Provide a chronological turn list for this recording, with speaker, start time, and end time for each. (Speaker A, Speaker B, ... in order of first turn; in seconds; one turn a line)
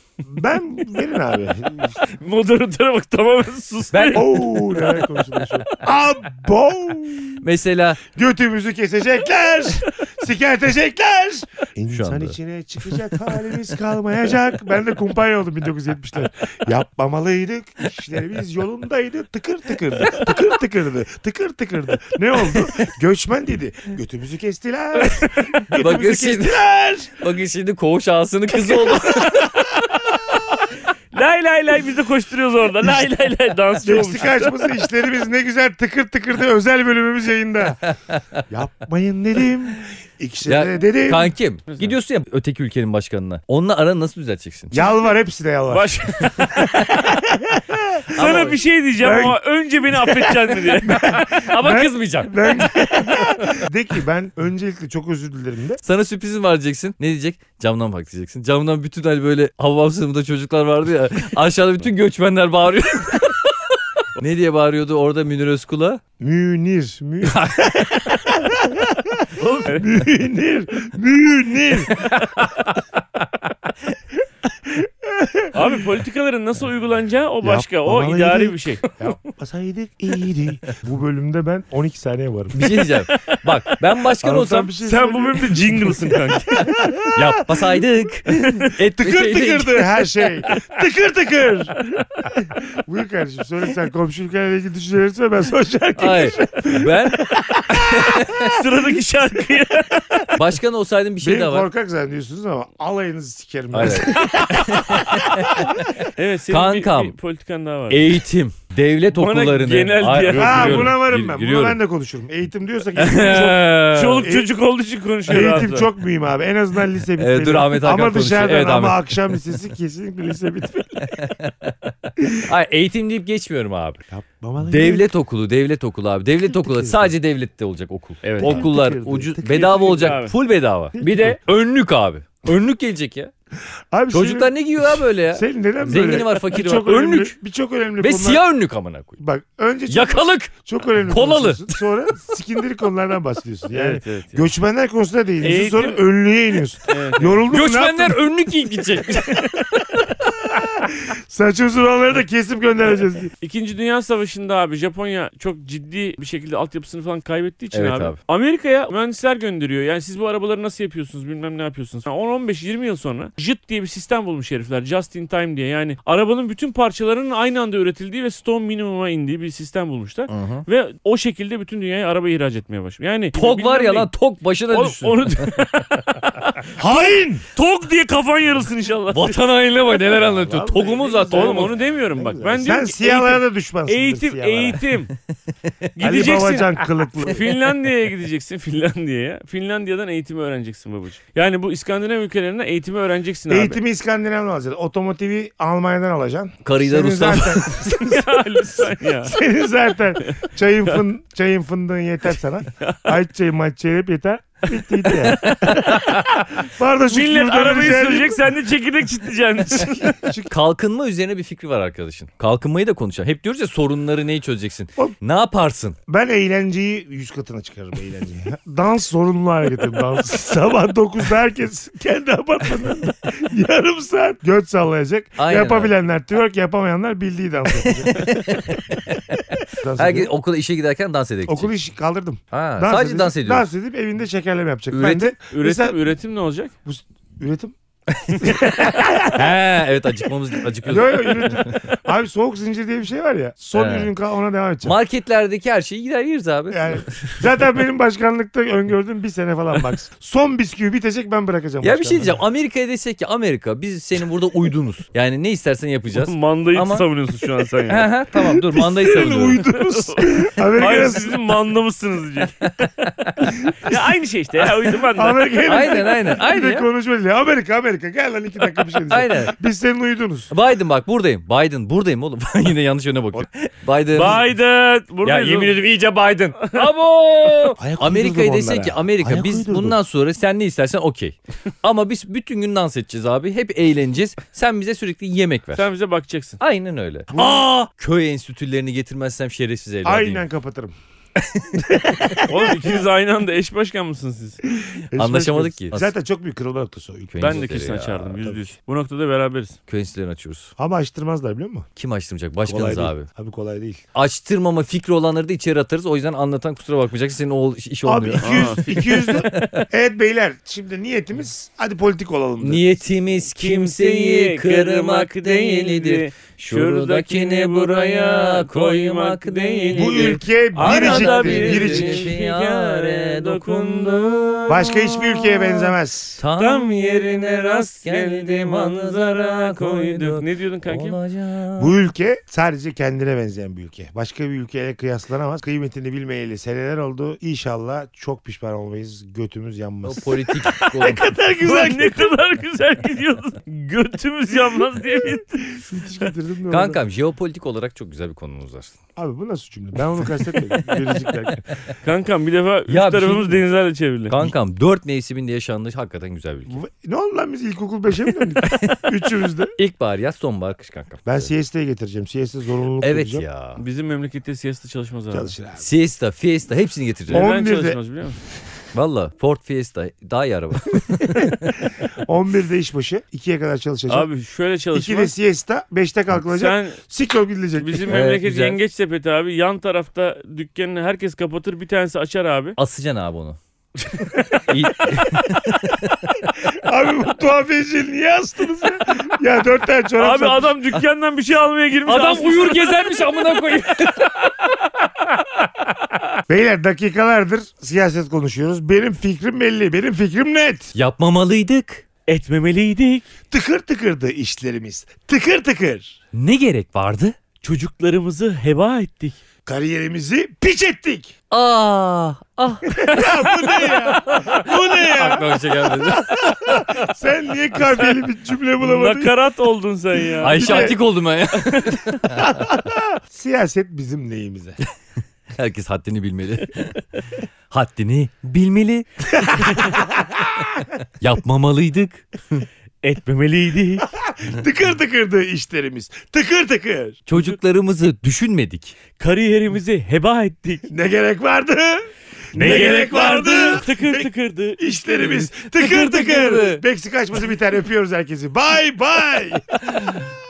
Speaker A: 0.3-2.0
Speaker B: 2.0-4.9
Speaker C: 3.9-4.4
Speaker A: 4.1-7.4
Speaker C: 7.4-8.0
Speaker A: 8.1-27.1
Speaker C: 11.9-12.4
Speaker C: 22.4-22.9
Speaker B: 25.0-25.5
Speaker C: 25.7-26.6
Speaker C: 27.2-29.5
Speaker B: 28.7-34.6
Speaker A: 33.8-37.8
Speaker C: 37.9-38.4
Speaker A: 38.5-41.3
Speaker C: 40.5-44.9
Speaker B: 41.7-41.9
Speaker A: 44.7-46.0
Speaker B: 45.7-46.7
Speaker C: 46.5-47.0
Speaker A: 47.0-48.3
Speaker B: 48.1-51.0
Speaker C: 48.1-48.5
Speaker A: 49.0-49.4
Speaker A: 50.1-55.8
Speaker C: 51.4-53.6
Speaker C: 55.8-63.5
Speaker C: 64.2-66.0
Speaker A: 66.2-72.1
Speaker C: 67.3-67.8
Speaker C: 69.4-69.7
Speaker C: 72.0-72.5
Speaker A: 74.6-75.7
Speaker B: 75.5-78.8
Speaker A: 77.4-82.7
Speaker C: 82.5-84.7
Speaker B: 82.9-83.4
Speaker A: 84.2-87.6
Speaker B: 84.8-86.7
Speaker C: 87.1-90.0
Speaker B: 88.4-88.7
Speaker A: 88.9-91.8
Speaker B: 91.9-92.3
Speaker A: 92.4-98.3
Speaker C: 96.0-98.5
Speaker B: 98.3-100.3
Speaker C: 100.3-101.7
Speaker A: 101.2-105.7
Speaker C: 103.7-107.1
Speaker B: 106.1-108.1
Speaker C: 107.9-111.8
Speaker B: 109.1-110.9
Speaker A: 110.3-113.7
Speaker C: 113.0-114.3
Speaker B: 113.9-115.9
Speaker A: 114.2-114.5
Speaker A: 115.3-121.1
Speaker C: 117.2-119.1
Speaker C: 121.1-124.0
Speaker A: 124.1-125.1
Speaker C: 124.6-133.3
Speaker A: 126.5-127.1
Speaker B: 128.2-128.7
Speaker A: 128.4-130.2
Speaker B: 129.5-130.3
Speaker A: 131.0-131.3
Speaker A: 133.9-138.4
Speaker C: 134.1-137.3
Speaker C: 138.0-139.2
Speaker A: 139.2-148.2
Speaker C: 139.9-140.5
Speaker C: 141.1-141.8
Speaker B: 143.7-144.4
Speaker B: 145.4-146.0
Speaker B: 146.9-147.4
Speaker C: 147.5-149.6
Speaker A: 150.5-153.3
Speaker B: 153.4-174.1
Speaker C: 157.7-158.2
Speaker C: 170.3-170.6
Speaker C: 173.3-175.5
Speaker B: 174.7-179.4
Speaker A: 176.8-177.4
Speaker C: 179.1-181.7
Speaker A: 180.1-184.8
Speaker B: 181.3-185.1
Speaker B: 185.9-193.8
Speaker A: 186.0-187.4
Speaker A: 193.5-208.4
Speaker C: 196.6-197.9
Speaker B: 197.8-199.3
Speaker B: 200.2-201.0
Speaker B: 202.8-203.1
Speaker B: 205.1-206.1
Speaker B: 207.1-210.2
Speaker A: 209.7-210.5
Speaker C: 210.5-216.0
Speaker A: 216.1-228.3
Speaker C: 225.4-225.9
Speaker C: 227.8-231.7
Speaker A: 229.7-230.3
Speaker A: 231.4-236.0
Speaker C: 232.5-233.6
Speaker C: 234.9-235.3
Speaker B: 235.5-236.7
Speaker A: 236.8-237.7
Speaker C: 238.1-241.8
Speaker A: 238.3-239.5
Speaker A: 240.8-244.9
Speaker C: 243.7-244.1
Speaker C: 244.8-247.4
Speaker A: 246.7-252.3
Speaker C: 251.8-257.0
Speaker B: 256.1-258.1
Speaker C: 257.9-259.6
Speaker A: 258.7-261.4
Speaker B: 259.3-262.6
Speaker C: 262.6-263.5
Speaker B: 263.7-265.6
Speaker A: 263.8-264.1
Speaker A: 264.6-270.5
Speaker C: 265.6-266.9
Speaker C: 269.1-269.5
Speaker C: 270.5-274.4
Speaker B: 274.1-275.8
Speaker C: 275.2-285.8
Speaker A: 277.8-280.0
Speaker B: 285.8-286.6
Speaker C: 286.6-290.4
Speaker A: 287.3-287.7
Speaker A: 290.0-290.9
Speaker C: 291.4-292.3
Speaker A: 291.8-292.7
Speaker B: 292.4-294.6
Speaker A: 294.7-297.7
Speaker C: 295.1-296.1
Speaker C: 297.3-298.6
Speaker B: 297.4-299.8
Speaker C: 299.9-300.7
Speaker A: 300.8-301.9
Speaker C: 301.9-303.3
Speaker A: 302.6-304.0
Speaker C: 304.1-309.8
Speaker A: 308.0-312.8
Speaker B: 308.4-309.7
Speaker C: 312.6-325.9
Speaker B: 313.6-324.7
Speaker A: 319.9-322.3
Speaker A: 324.7-326.4
Speaker C: 326.4-331.9
Speaker B: 326.6-331.2
Speaker A: 331.8-342.3
Speaker C: 340.0-341.2
Speaker B: 341.6-345.7
Speaker A: 345.8-347.0
Speaker C: 346.7-348.9
Speaker A: 349.1-351.6
Speaker B: 352.0-354.5
Speaker C: 352.9-353.6
Speaker C: 354.3-356.7
Speaker A: 356.7-359.7
Speaker C: 358.6-359.1
Speaker C: 359.8-361.5
Speaker A: 361.2-363.4
Speaker C: 363.0-363.8
Speaker B: 363.8-365.5
Speaker A: 365.3-365.9
Speaker C: 365.8-367.5
Speaker A: 367.3-368.0
Speaker B: 367.3-368.4
Speaker C: 368.9-371.8
Speaker A: 372.2-374.3
Speaker B: 374.1-375.3
Speaker A: 374.9-378.1
Speaker B: 376.4-377.0
Speaker B: 377.8-382.8
Speaker C: 378.1-378.8
Speaker C: 382.8-383.6
Speaker C: 384.6-386.3
Speaker A: 386.6-390.7
Speaker B: 390.2-393.0
Speaker C: 392.1-394.3
Speaker A: 396.5-400.9
Speaker C: 400.9-402.0
Speaker B: 402.3-403.2
Speaker A: 403.5-406.2
Speaker C: 406.3-407.4
Speaker B: 407.6-409.4
Speaker A: 409.6-411.3
Speaker C: 411.5-413.3
Speaker A: 412.9-419.3
Speaker C: 414.2-416.9
Speaker B: 418.8-420.9
Speaker C: 420.4-422.5
Speaker A: 420.5-421.0
Speaker B: 421.6-422.0
Speaker A: 422.3-424.8
Speaker C: 425.5-427.0
Speaker C: 427.7-430.0
Speaker A: 429.4-430.8
Speaker C: 431.2-432.6
Speaker B: 433.0-434.1
Speaker A: 434.0-437.2
Speaker C: 437.3-439.0
Speaker B: 439.2-440.9
Speaker A: 440.9-450.0
Speaker C: 442.5-443.0
Speaker B: 442.6-445.0
Speaker C: 445.2-446.8